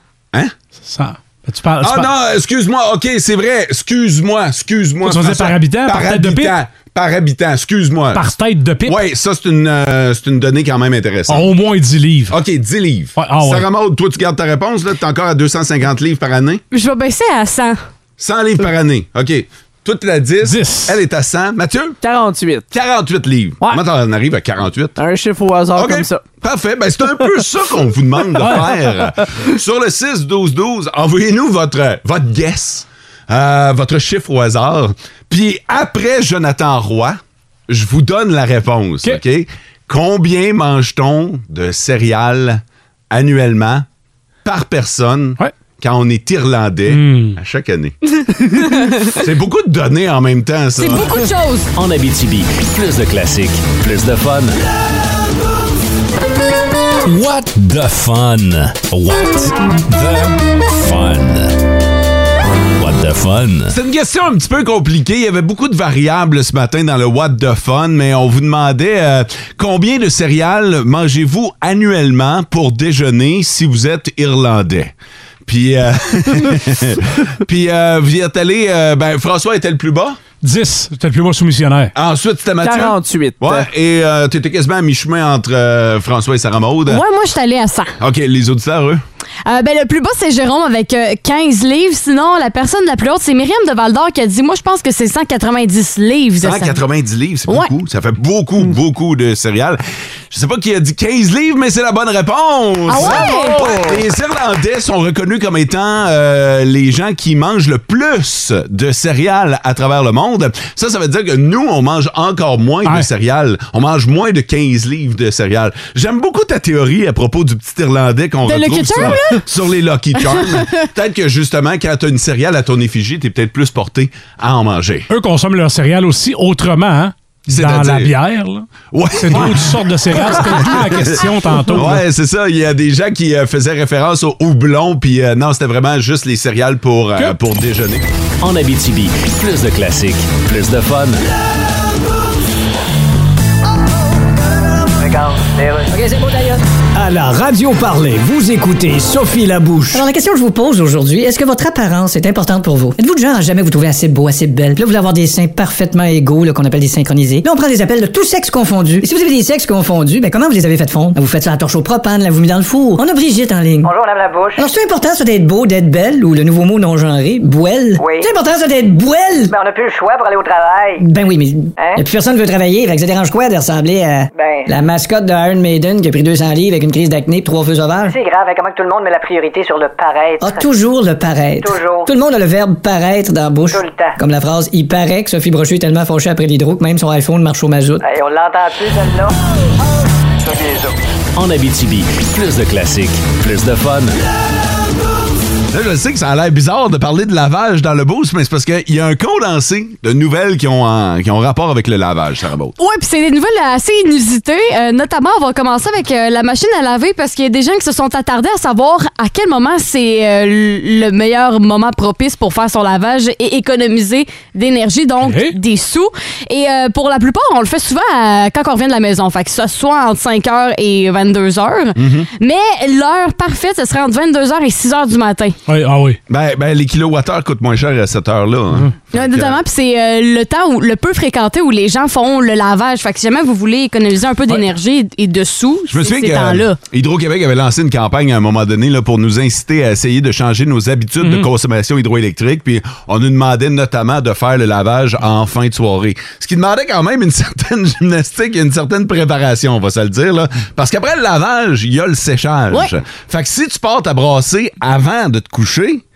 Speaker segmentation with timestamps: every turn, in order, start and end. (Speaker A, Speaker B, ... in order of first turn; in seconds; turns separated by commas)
Speaker A: 0.8-2.1, Speaker B: 1.8-8.3, Speaker A: 5.0-6.6, Speaker A: 8.1-9.0, Speaker B: 8.8-11.6, Speaker A: 11.3-12.4, Speaker B: 12.3-16.6, Speaker A: 13.2-13.7, Speaker C: 16.7-17.8, Speaker B: 18.2-22.0, Speaker A: 20.4-21.0, Speaker D: 22.0-22.7, Speaker B: 22.7-25.0, Speaker D: 25.0-26.3, Speaker B: 25.8-43.9, Speaker A: 28.4-28.8, Speaker B: 44.4-51.1, Speaker A: 46.9-47.4, Speaker C: 50.8-51.7, Speaker E: 51.8-54.6, Speaker E: 57.0-61.6, Speaker E: 62.8-63.8, Speaker B: 63.7-74.9, Speaker B: 75.5-80.2, Speaker A: 80.4-81.9, Speaker B: 82.0-87.0, Speaker D: 82.6-83.7, Speaker C: 86.9-88.0, Speaker B: 88.0-89.0, Speaker C: 89.5-96.8, Speaker B: 96.4-99.8, Speaker B: 100.3-125.1, Speaker C: 102.9-104.0, Speaker C: 118.5-119.4, Speaker C: 120.2-120.8, Speaker A: 125.1-132.1, Speaker B: 127.5-128.1, Speaker B: 128.9-138.1, Speaker E: 138.4-141.2, Speaker F: 145.0-145.9, Speaker G: 145.9-146.6, Speaker H: 146.9-150.0, Speaker G: 149.9-163.9, Speaker F: 163.8-164.7, Speaker G: 164.6-169.5, Speaker F: 168.0-168.3, Speaker F: 169.5-171.0, Speaker G: 171.0-178.2, Speaker F: 174.3-174.7, Speaker F: 178.0-180.7, Speaker G: 180.4-188.0, Speaker F: 181.6-182.1, Speaker F: 183.7-184.2, Speaker F: 188.0-189.3, Speaker F: 190.5-190.9, Speaker E: 191.3-194.2, Speaker B: 195.7-202.8, Speaker C: 202.8-225.6, Speaker A: 215.2-215.6, Speaker B: 222.0-222.3, Speaker A: 225.7-226.2, Speaker B: 226.3-229.6, Speaker C: 229.1-236.8, Speaker B: 235.9-256.0, Speaker A: 241.2-241.5